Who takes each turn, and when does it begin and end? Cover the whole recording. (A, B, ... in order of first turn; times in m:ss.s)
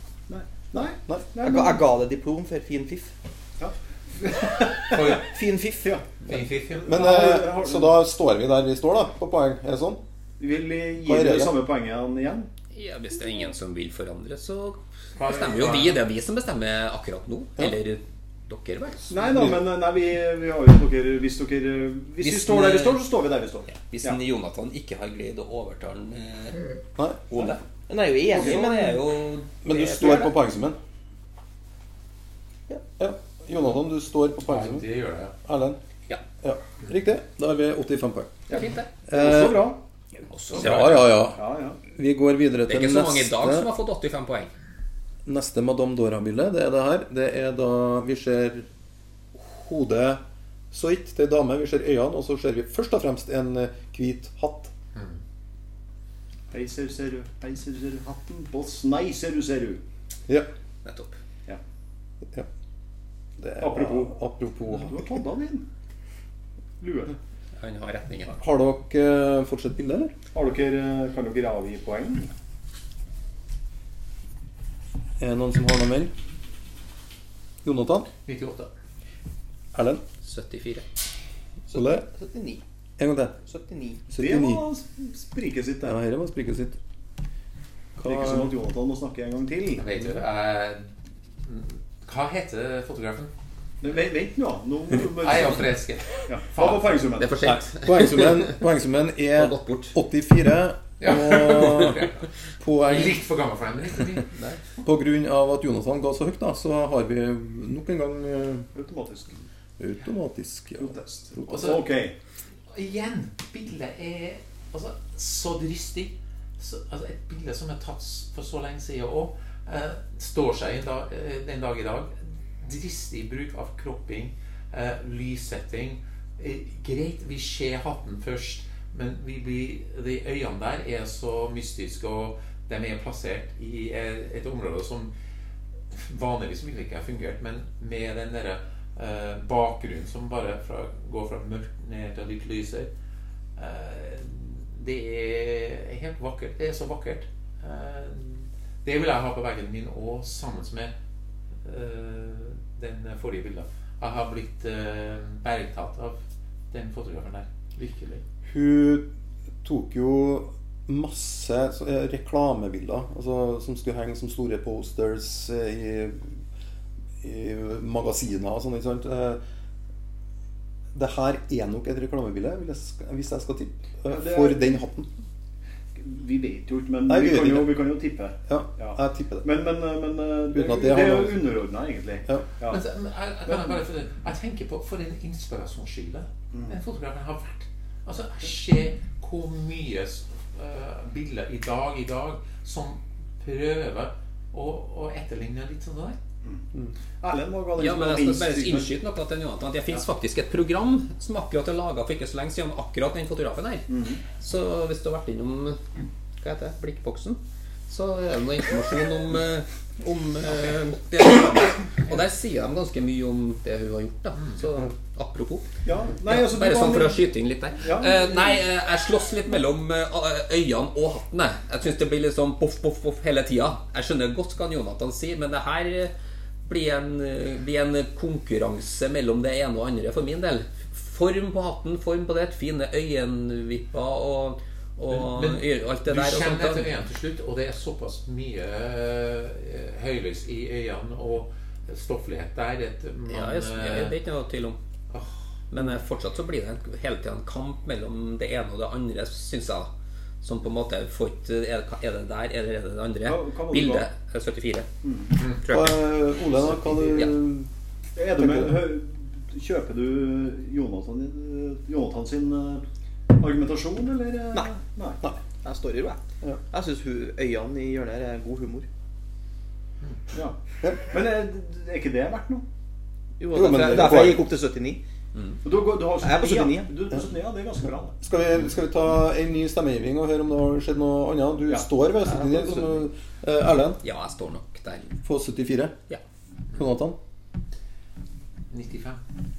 0:00.3-0:01.8 A
0:01.4-0:03.1 B
0:03.6-0:05.1 A
0:04.9-0:05.3 C
0:05.1-0:06.0 B
0:06.3-0:07.1 C
0:06.8-0:08.0 A
0:06.9-0:10.0 D
0:10.4-0:12.5 A
0:11.0-0:11.6 D
0:12.7-0:19.1 E
0:15.2-0:16.0 C
0:19.1-0:24.2 A
0:19.3-0:19.6 D
0:22.2-0:23.0 E
0:23.7-0:26.7 E
0:27.0-0:27.5 D
0:27.3-0:27.6 E
0:27.9-0:29.0 B
0:28.3-0:30.4 E
0:29.6-0:30.8 D
0:32.8-0:34.9 D
0:34.4-0:35.4 C
0:35.4-0:35.8 D
0:36.4-0:38.5 D
0:38.5-0:38.9 E
0:38.5-0:39.8 A
0:39.1-0:39.7 D
0:40.3-0:41.0 E
0:40.5-0:41.2 C
0:40.6-0:43.7 D
0:41.3-0:41.8 A
0:42.7-0:44.5 E
0:45.3-0:48.7 D
0:49.4-0:50.2 D
0:50.7-0:54.7 D
0:56.5-0:59.8 A
1:00.8-1:01.2 E
1:03.4-1:05.2 D
1:03.6-1:04.1 A
1:04.7-1:05.7 A
1:06.8-1:07.2 A
1:07.6-1:08.4 E
1:08.4-1:10.1 D
1:10.3-1:12.3 A
1:15.2-1:16.1 D
1:17.6-1:18.1 D
1:18.2-1:18.7 C
1:19.7-1:20.0 D
1:20.2-1:20.9 E
1:21.7-1:22.6 B
1:21.7-1:22.1 D
1:23.0-1:23.4 D
1:23.4-1:24.1 B
1:24.1-1:24.6 D
1:24.2-1:26.0 A
1:25.8-1:26.8 D
1:28.0-1:28.5 D
1:28.0-1:29.8 A
1:29.8-1:30.9 C
1:31.4-1:33.3 C
1:33.8-1:35.7 A
1:35.0-1:37.2 C
1:36.3-1:37.4 A
1:37.2-1:38.6 E
1:37.4-1:43.2 D
1:39.4-1:40.0 E
1:41.0-1:42.2 C
1:42.8-1:44.4 C
1:44.8-1:48.7 D
1:48.7-1:49.4 A
1:49.8-1:51.7 D
1:50.8-1:52.1 A
1:51.5-1:51.8 C
1:52.7-2:15.1 C
2:15.9-2:22.9 C
2:23.6-2:30.9 C
2:31.6-2:36.2 C
2:36.7-2:38.2 C
2:38.5-2:39.1 D
2:39.6-2:46.3 D
2:47.2-2:49.4 D
2:50.9-2:55.1 D
2:54.1-2:54.6 A
2:56.0-3:02.8 A
2:57.1-2:57.9 D
2:58.5-2:59.5 D
3:00.5-3:01.4 D
3:02.7-3:16.2 C
3:17.2-3:18.9 A
3:17.8-3:25.8 E
3:23.9-3:24.2 A
3:26.4-3:35.7 E
3:35.8-3:37.2 A
3:36.2-3:46.1 E
3:37.8-3:38.6 A
3:46.6-3:56.9 E
3:55.1-4:04.2 C
4:03.3-4:04.8 E
4:05.7-4:09.9 E
4:10.4-4:14.9 E
4:13.3-4:14.1 A
4:15.0-4:15.4 A
4:15.6-4:16.0 E
4:15.7-4:17.7 D
4:18.2-4:22.8 A
4:18.4-4:18.9 D
4:23.4-4:25.2 A
4:25.6-4:28.9 B
4:30.3-4:32.6 A
4:33.4-4:35.0 B
4:33.5-4:34.5 D
4:35.6-4:38.2 A
4:36.2-4:36.9 B
4:38.2-4:44.0 D
4:42.2-4:43.0 B
4:44.0-4:45.1 E
4:45.2-4:46.0 D
4:46.8-4:47.2 D
4:48.7-4:49.2 C